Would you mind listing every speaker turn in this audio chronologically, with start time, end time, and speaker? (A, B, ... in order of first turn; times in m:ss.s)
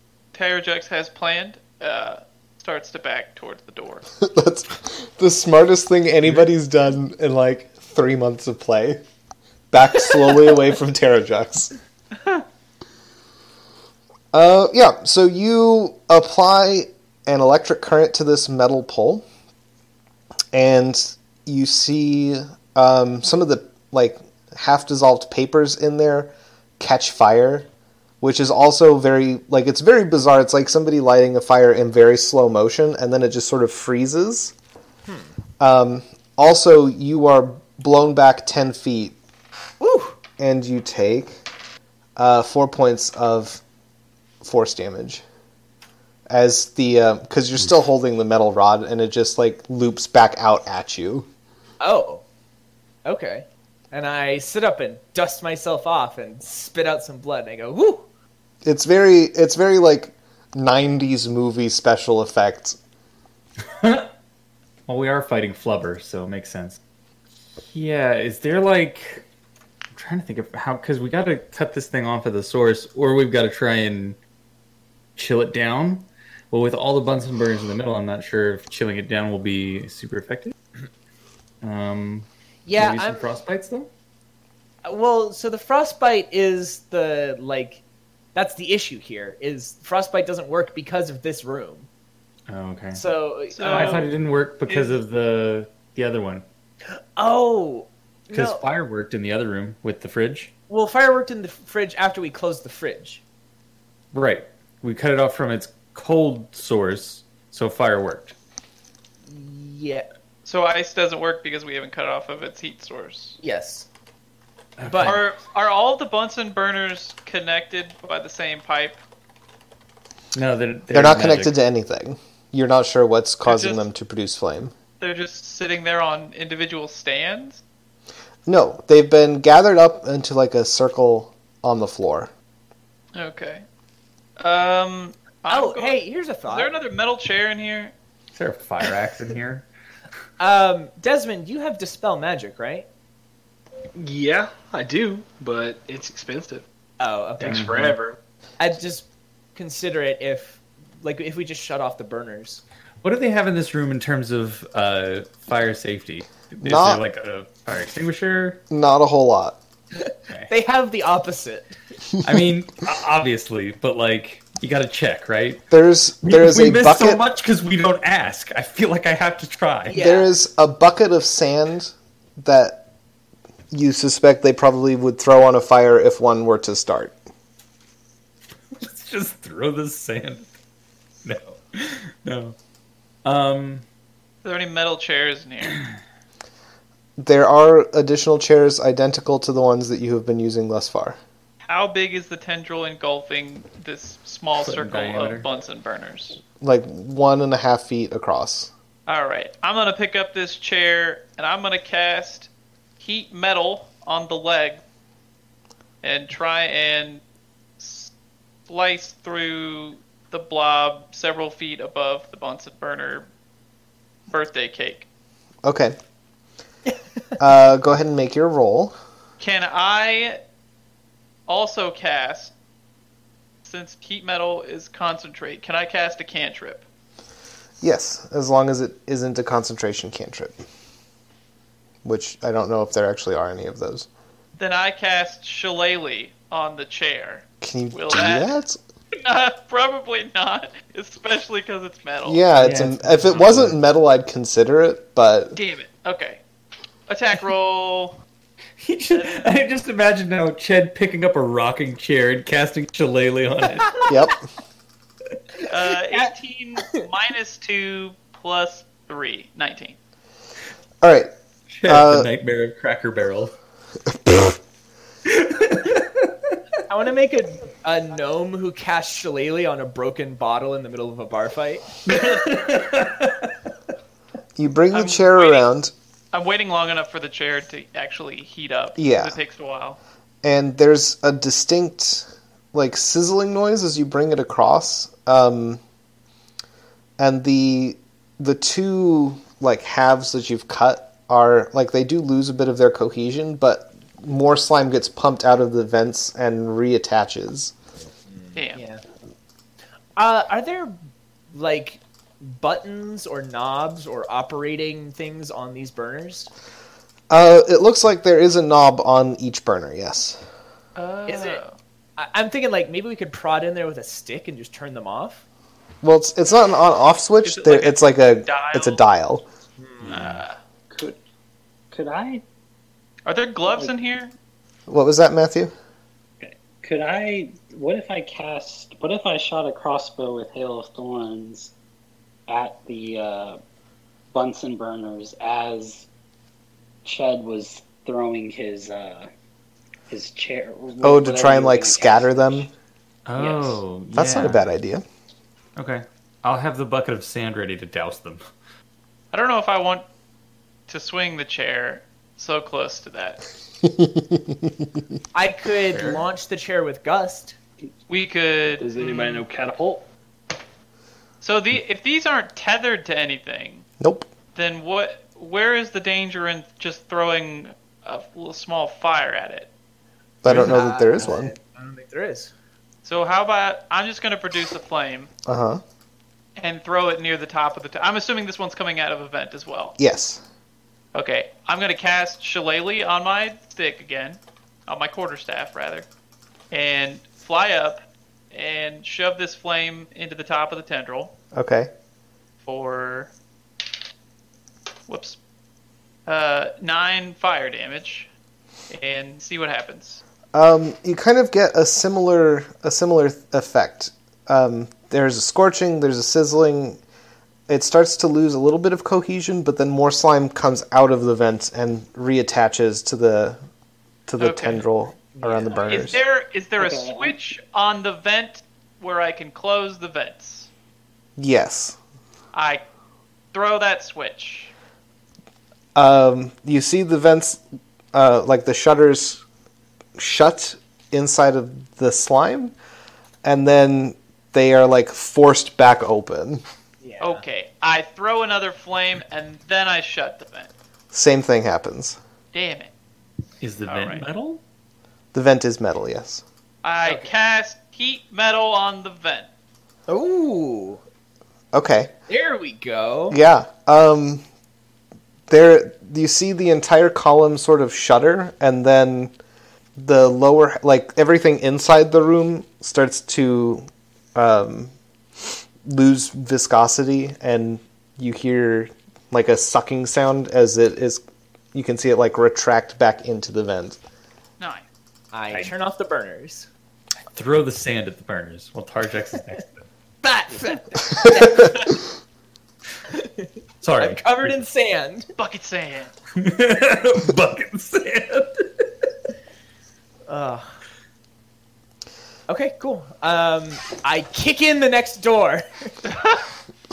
0:00.3-0:04.0 A
0:04.2-0:09.0 B
0:09.7-0:11.7 B
0:14.3-0:19.2 B
0:20.5-0:27.7 B
0:28.2-0:34.5 B
0:35.0-0:35.3 C
0:35.6-0:39.2 B
0:39.8-0:40.2 C
0:40.4-0:41.4 B
0:42.2-0:43.6 B
0:44.4-0:45.2 B
0:46.3-0:51.3 B
0:51.8-0:52.2 C
0:53.0-0:58.0 C
0:58.6-1:02.8 B
1:03.8-1:04.1 D
1:04.9-1:06.8 D
1:07.6-1:09.2 D
1:09.9-1:14.2 D
1:15.2-1:20.5 D
1:21.6-1:23.9 D
1:22.6-1:23.3 C
1:24.8-1:27.8 C
1:28.3-1:31.9 C
1:32.5-1:33.0 D
1:32.9-1:34.0 C
1:33.5-1:34.1 A
1:33.6-1:36.4 D
1:34.7-1:34.9 A
1:36.9-1:38.6 C
1:38.3-1:40.5 D
1:40.7-1:43.2 C
1:44.1-1:48.3 D
1:49.2-1:50.1 C
1:50.4-1:53.4 A
1:53.4-1:53.9 C
1:54.8-1:55.2 D
1:54.8-1:55.2 C
1:55.0-1:59.0 A
2:00.3-2:01.6 D
2:00.9-2:04.7 B
2:03.4-2:03.9 A
2:05.0-2:07.6 A
2:08.4-2:12.3 B
2:13.1-2:13.6 A
2:14.4-2:17.9 A
2:15.5-2:16.7 C
2:18.3-2:19.7 D
2:20.4-2:22.8 C
2:23.9-2:26.6 E
2:27.0-2:27.9 C
2:27.4-2:28.2 E
2:27.5-2:27.9 D
2:28.6-2:32.6 C
2:33.0-2:38.6 D
2:36.6-2:37.0 B
2:38.7-2:39.6 B
2:40.0-2:41.7 C
2:42.2-2:45.6 D
2:45.7-2:47.2 B
2:46.2-2:50.0 D
2:49.9-2:50.3 C
2:49.9-2:52.8 B
2:53.7-2:57.2 B
2:58.8-3:00.5 D
3:01.2-3:02.6 D
3:03.2-3:03.8 D
3:04.4-3:05.8 A
3:07.2-3:11.2 B
3:11.7-3:16.4 A
3:14.6-3:15.4 D
3:16.6-3:18.7 B
3:19.1-3:22.5 A
3:23.0-3:24.8 A
3:26.0-3:27.2 A
3:27.8-3:28.1 A
3:28.7-3:33.3 A
3:34.3-3:35.0 A
3:35.6-3:36.0 B
3:37.4-3:38.9 B
3:39.4-3:40.4 A
3:41.5-3:42.5 A
3:43.6-3:46.8 A
3:47.8-3:50.6 B
3:52.0-3:54.1 B
3:54.6-3:58.6 A
3:57.6-3:58.8 B
3:59.2-4:02.4 A
4:02.2-4:05.6 B
4:02.6-4:03.8 D
4:05.6-4:06.4 A
4:07.1-4:08.2 A
4:08.8-4:14.2 D
4:09.1-4:09.5 A
4:14.1-4:14.4 B
4:15.7-4:20.0 A
4:21.0-4:21.3 B
4:21.7-4:23.5 D
4:21.8-4:22.3 B
4:25.2-4:26.3 D
4:26.9-4:31.9 C
4:32.1-4:33.5 D
4:34.6-4:35.9 B
4:34.9-4:35.6 A
4:36.3-4:40.0 A
4:39.0-4:39.4 B
4:40.4-4:45.8 B
4:47.2-4:57.7 B
4:58.3-4:59.0 C
4:58.5-4:58.8 A
5:00.2-5:01.0 C
5:01.5-5:06.5 C
5:07.3-5:10.4 B
5:11.0-5:11.8 A
5:11.3-5:11.6 C
5:12.2-5:15.4 C
5:16.0-5:19.4 B
5:17.4-5:19.0 A
5:19.8-5:20.2 C
5:20.0-5:20.4 D
5:20.1-5:20.6 A
5:20.9-5:21.2 F
5:21.9-5:22.4 F
5:23.2-5:24.3 A
5:23.7-5:23.9 F
5:24.9-5:25.7 B
5:26.4-5:31.7 F
5:32.5-5:33.6 F
5:34.3-5:36.1 F
5:37.0-5:39.3 F
5:40.1-5:42.7 F
5:41.0-5:42.7 B
5:43.2-5:44.6 D
5:43.4-5:43.8 F
5:44.1-5:45.0 B
5:45.8-5:48.4 D
5:49.3-5:50.0 A
5:50.9-5:53.4 A
5:53.8-5:54.9 B
5:55.3-5:57.6 C
5:55.9-5:56.2 D
5:58.1-5:59.4 A
5:58.8-6:00.0 E
6:01.4-6:03.8 A
6:04.0-6:04.3 B
6:04.5-6:09.7 A
6:10.4-6:11.5 B
6:10.4-6:12.5 C
6:13.0-6:15.3 A
6:15.4-6:15.8 B
6:16.6-6:19.9 A
6:20.0-6:20.4 B
6:21.1-6:26.0 A
6:26.7-6:31.3 A
6:31.5-6:31.9 B
6:32.6-6:33.3 A
6:35.1-6:35.4 A
6:36.2-6:38.3 A
6:38.9-6:40.2 A
6:40.5-6:47.0 B
6:47.7-6:53.6 B
6:54.3-6:56.2 B
6:54.4-6:54.8 A
6:55.4-6:55.9 C
6:55.7-7:00.7 A
6:56.8-6:57.4 F
7:01.4-7:02.0 B
7:02.5-7:02.8 A
7:03.5-7:04.7 A
7:05.9-7:07.6 B
7:08.1-7:09.4 B
7:10.2-7:12.7 B
7:13.4-7:16.6 B
7:17.0-7:17.4 C
7:17.2-7:20.7 A
7:21.1-7:22.2 B
7:22.5-7:22.9 A
7:23.6-7:24.6 D
7:23.8-7:24.3 A
7:25.3-7:26.4 B
7:26.8-7:29.5 A
7:27.0-7:27.3 C
7:30.1-7:31.0 C
7:31.7-7:32.1 B
7:32.3-7:33.4 C
7:33.3-7:34.4 B
7:35.5-7:39.3 B
7:40.0-7:44.9 B
7:45.8-7:51.2 B
7:51.7-7:54.0 B
7:54.6-7:54.8 A
7:55.3-7:56.7 C
7:57.3-7:59.7 D
8:00.2-8:01.8 C
8:03.1-8:05.3 C
8:03.8-8:04.5 D
8:05.4-8:06.1 A
8:06.3-8:08.8 D
8:10.3-8:10.8 C
8:12.5-8:15.9 C
8:16.1-8:16.4 A